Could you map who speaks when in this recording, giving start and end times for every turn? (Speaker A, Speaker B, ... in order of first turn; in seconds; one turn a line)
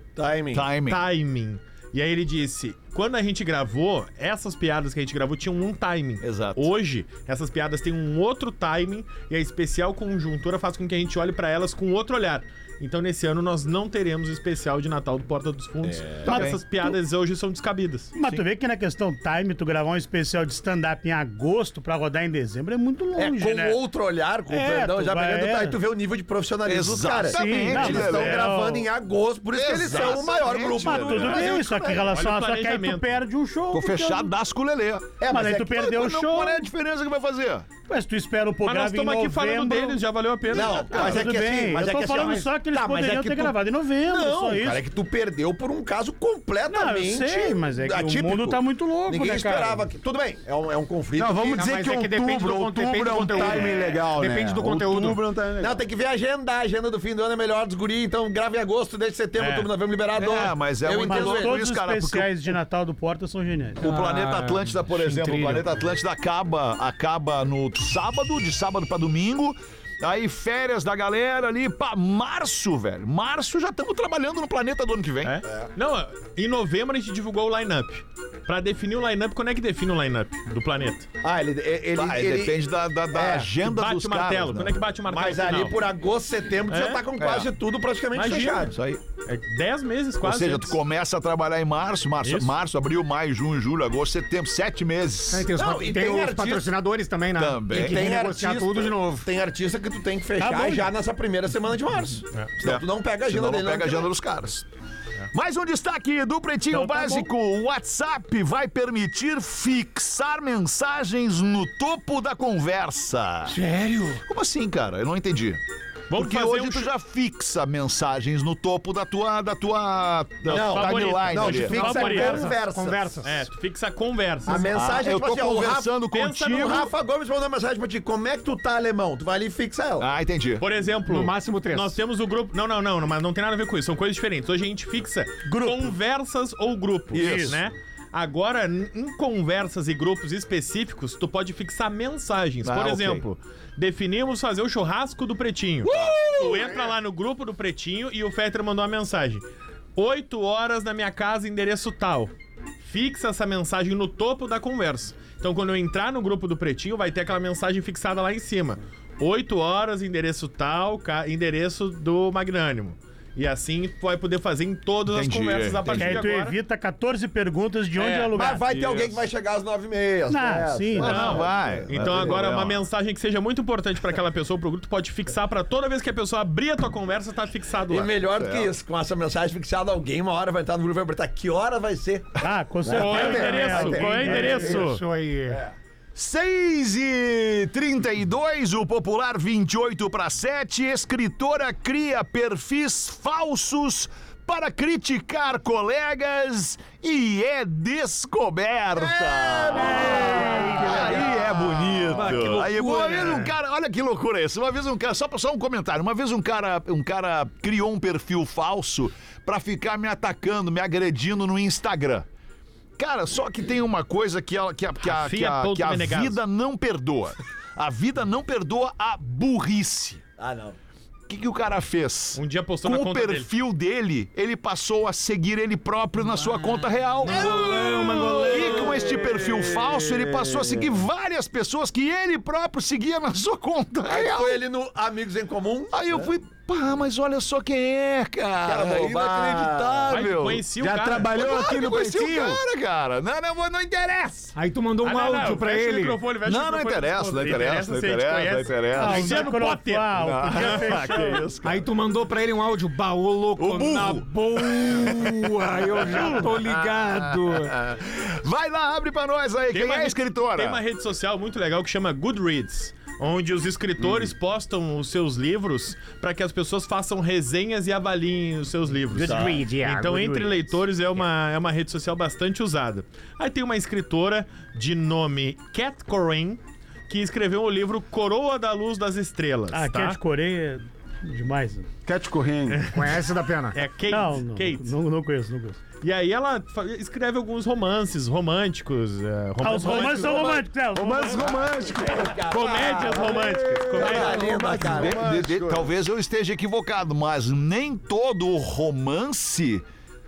Speaker A: 0.1-0.7
Speaker B: 0.5-1.0
Speaker C: 0.9-18.1
Speaker B: 6.2-6.7
Speaker B: 15.9-16.6
Speaker D: 16.2-16.6
Speaker D: 18.1-23.8
Speaker A: 23.1-31.6
Speaker D: 24.5-25.8
Speaker B: 26.6-28.5
Speaker D: 27.3-28.9
Speaker B: 29.5-32.1
Speaker D: 30.7-34.3
Speaker C: 32.1-33.1
Speaker B: 33.7-37.6
Speaker A: 35.2-35.7
Speaker D: 35.3-36.7
Speaker D: 37.9-40.0
Speaker C: 38.6-41.2
Speaker A: 40.5-51.6
Speaker B: 40.6-41.3
Speaker D: 40.9-44.8
Speaker D: 46.7-49.8
Speaker E: 51.1-55.8
Speaker F: 51.5-55.2
Speaker A: 53.4-53.8
Speaker A: 55.6-61.5
Speaker C: 59.4-59.7
Speaker B: 60.1-62.3
Speaker D: 61.0-63.9
Speaker B: 63.8-75.4
Speaker F: 63.8-65.7
Speaker C: 75.2-81.1
Speaker A: 81.2-83.5
Speaker B: 81.9-84.8
Speaker C: 83.6-85.8
Speaker A: 85.1-88.7
Speaker C: 86.7-87.0
Speaker B: 87.2-87.5
Speaker C: 88.1-88.7
Speaker B: 88.7-89.0
Speaker C: 89.2-90.8
Speaker B: 90.2-95.5
Speaker C: 92.2-92.5
Speaker F: 95.3-99.3
Speaker A: 95.5-96.7
Speaker B: 97.3-98.1
Speaker A: 97.7-104.1
Speaker D: 100.4-100.9
Speaker B: 102.6-104.6
Speaker B: 105.3-113.5
Speaker D: 106.7-107.3
Speaker F: 113.5-114.2
Speaker B: 114.2-115.6
Speaker C: 116.1-116.9
Speaker B: 116.1-122.0
Speaker C: 120.5-122.5
Speaker A: 120.5-123.2
Speaker F: 121.8-123.3
Speaker C: 123.2-124.7
Speaker A: 124.5-125.9
Speaker B: 124.7-126.9
Speaker C: 126.1-126.8
Speaker A: 126.4-130.1
Speaker B: 130.0-130.6
Speaker C: 130.6-149.4
Speaker F: 131.0-132.0
Speaker D: 135.4-135.9
Speaker B: 137.1-137.6
Speaker D: 137.1-137.6
Speaker B: 142.6-143.2
Speaker A: 145.9-146.7
Speaker B: 145.9-146.4
Speaker C: 149.9-152.3
Speaker C: 152.8-166.5
Speaker B: 165.1-166.2
Speaker D: 165.9-168.6
Speaker A: 167.9-172.4
Speaker B: 168.7-169.2
Speaker D: 170.3-171.3
Speaker B: 170.9-172.8
Speaker C: 171.0-178.1
Speaker A: 177.9-184.8
Speaker B: 178.3-178.7
Speaker D: 182.4-184.8
Speaker C: 182.9-185.0
Speaker F: 184.1-185.6
Speaker B: 186.1-212.2
Speaker A: 198.9-201.5
Speaker D: 199.8-201.2
Speaker F: 201.0-203.5
Speaker A: 202.1-202.5
Speaker B: 213.0-220.2
Speaker C: 215.0-216.4
Speaker A: 220.4-220.8
Speaker B: 221.3-234.6
Speaker C: 222.3-223.5
Speaker F: 226.3-229.0
Speaker A: 227.3-230.9
Speaker A: 234.1-236.3
Speaker B: 235.9-240.6
Speaker A: 238.6-240.2
Speaker C: 240.1-241.3
Speaker E: 240.8-242.6
Speaker B: 241.3-244.5
Speaker F: 244.5-246.2
Speaker C: 245.0-251.3
Speaker B: 246.4-249.5
Speaker D: 248.9-251.4
Speaker B: 250.2-251.8
Speaker F: 251.6-257.7
Speaker B: 253.6-260.8
Speaker D: 256.1-256.4
Speaker C: 259.7-280.2
Speaker F: 269.1-270.7
Speaker D: 279.7-281.9
Speaker E: 282.0-282.8
Speaker C: 282.7-283.2
Speaker F: 282.9-283.8
Speaker C: 283.7-284.9
Speaker D: 284.1-285.8
Speaker C: 286.0-290.6
Speaker D: 289.6-291.6
Speaker A: 289.7-290.6
Speaker E: 290.9-295.9
Speaker A: 291.6-295.4
Speaker C: 292.5-294.5
Speaker B: 294.8-299.8